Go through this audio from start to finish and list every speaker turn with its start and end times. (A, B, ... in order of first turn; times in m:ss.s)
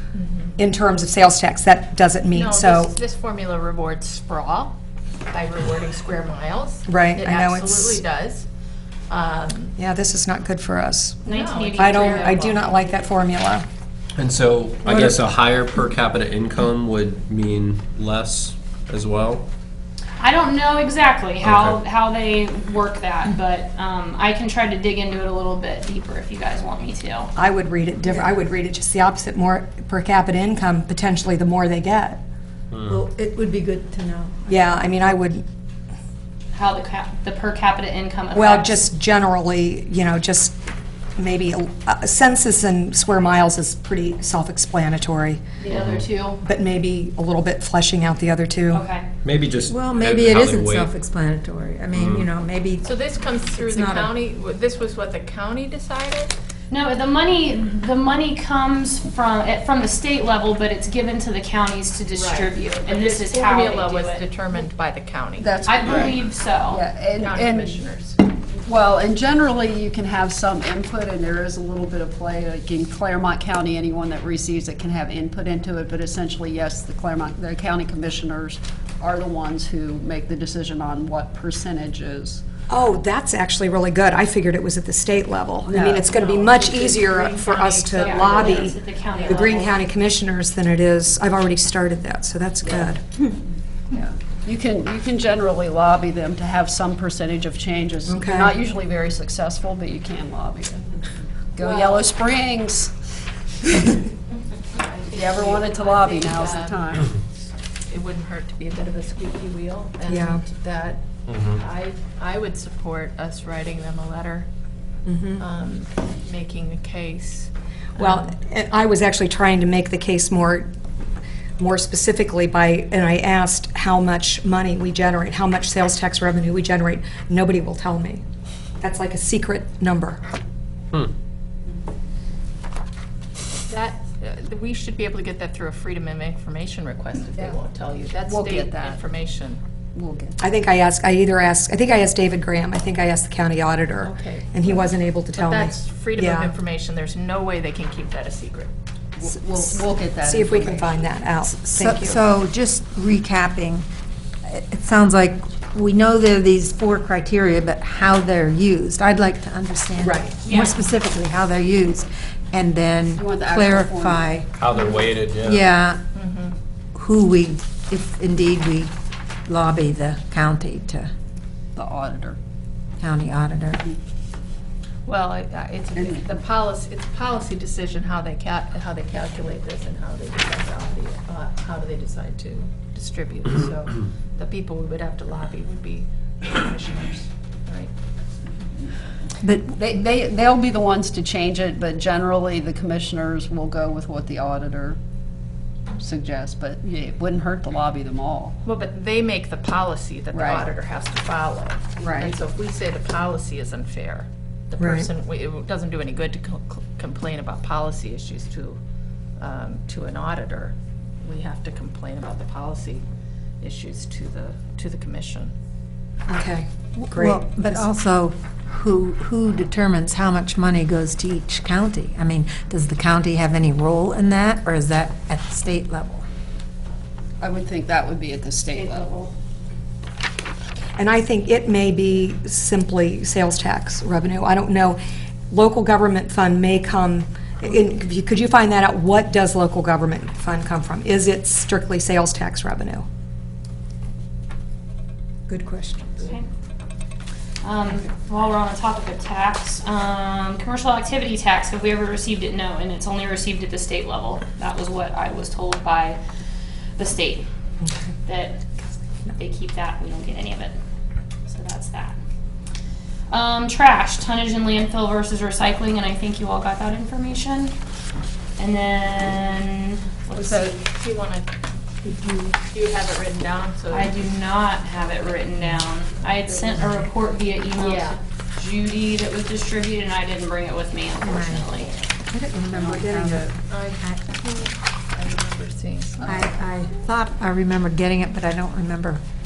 0:00.1-0:00.5 A
0:00.6-0:02.9 B
0:02.3-0:04.8 A
0:05.3-0:08.5 A
0:06.9-0:08.0 B
0:09.1-0:09.8 A
0:09.8-0:11.2 B
0:11.2-0:13.0 C
0:11.3-0:12.6 A
0:11.8-0:13.6 B
0:14.2-0:19.4 D
0:20.2-0:27.3 C
0:21.4-0:21.8 D
0:27.4-0:32.2 B
0:32.7-0:33.0 D
0:32.9-0:34.5 E
0:34.5-0:35.5 B
0:36.5-0:38.8 C
0:38.3-0:40.6 B
0:41.2-0:45.4 B
0:45.6-0:46.1 C
0:45.7-0:46.1 D
0:46.0-0:46.4 F
0:46.4-0:48.8 B
0:48.7-0:49.1 C
0:49.2-0:50.9 D
0:49.7-0:52.9 E
0:51.9-0:52.3 D
0:52.8-0:56.3 A
0:53.6-0:54.1 E
0:56.7-1:04.2 C
1:02.1-1:06.2 A
1:05.4-1:07.8 F
1:05.7-1:06.8 C
1:07.1-1:08.2 A
1:08.6-1:22.4 F
1:22.7-1:33.0 B
1:25.7-1:26.1 F
1:26.1-1:29.7 A
1:27.9-1:29.6 C
1:29.3-1:29.6 F
1:32.6-1:32.9 F
1:33.9-1:43.0 F
1:38.1-1:38.6 B
1:41.6-1:42.1 A
1:44.7-1:47.2 A
1:45.1-1:47.1 F
1:47.9-1:54.5 A
1:50.1-1:50.4 B
1:51.3-1:51.6 D
1:55.0-1:55.4 B
1:55.4-1:58.3 A
1:58.0-2:00.7 B
2:01.6-2:08.2 B
2:08.8-2:10.2 B
2:13.7-2:19.6 A
2:18.2-2:19.0 F
2:20.0-2:20.4 F
2:20.4-2:26.5 B
2:24.0-2:28.7 A
2:29.2-2:31.1 F
2:30.2-2:32.2 B
2:31.5-2:33.9 E
2:34.5-2:44.5 E
2:40.0-2:40.4 B
2:40.4-2:40.8 C
2:43.2-2:44.3 F
2:44.6-2:45.6 D
2:44.7-2:45.0 A
2:45.4-2:46.0 E
2:46.2-2:46.6 A
2:47.0-2:48.9 E
2:49.5-2:51.1 E
2:51.8-2:52.4 F
2:53.0-2:53.8 E
2:55.1-3:07.9 A
3:09.4-3:09.8 E
3:09.7-3:15.0 F
3:16.0-3:18.6 F
3:18.6-3:28.8 A
3:20.3-3:20.7 F
3:22.0-3:22.4 F
3:24.8-3:25.1 B
3:29.4-3:33.0 A
3:33.6-3:35.5 A
3:36.3-3:37.8 B
3:37.0-3:46.2 E
3:47.4-3:49.3 F
3:51.0-4:03.1 B
4:05.5-4:06.3 B
4:06.2-4:06.5 C
4:07.6-4:16.2 C
4:17.0-4:17.5 C
4:17.8-4:18.1 B
4:18.2-4:18.6 C
4:19.4-4:20.7 C
4:21.5-4:22.2 C
4:23.3-4:27.7 C
4:28.6-4:30.7 C
4:30.4-4:30.7 F
4:30.4-4:31.5 A
4:32.7-4:34.1 A
4:33.9-4:41.9 C
4:37.8-4:38.2 A
4:41.2-4:41.7 E
4:42.3-4:44.2 E
4:42.7-4:43.5 F
4:43.7-4:46.4 A
4:46.2-4:49.2 E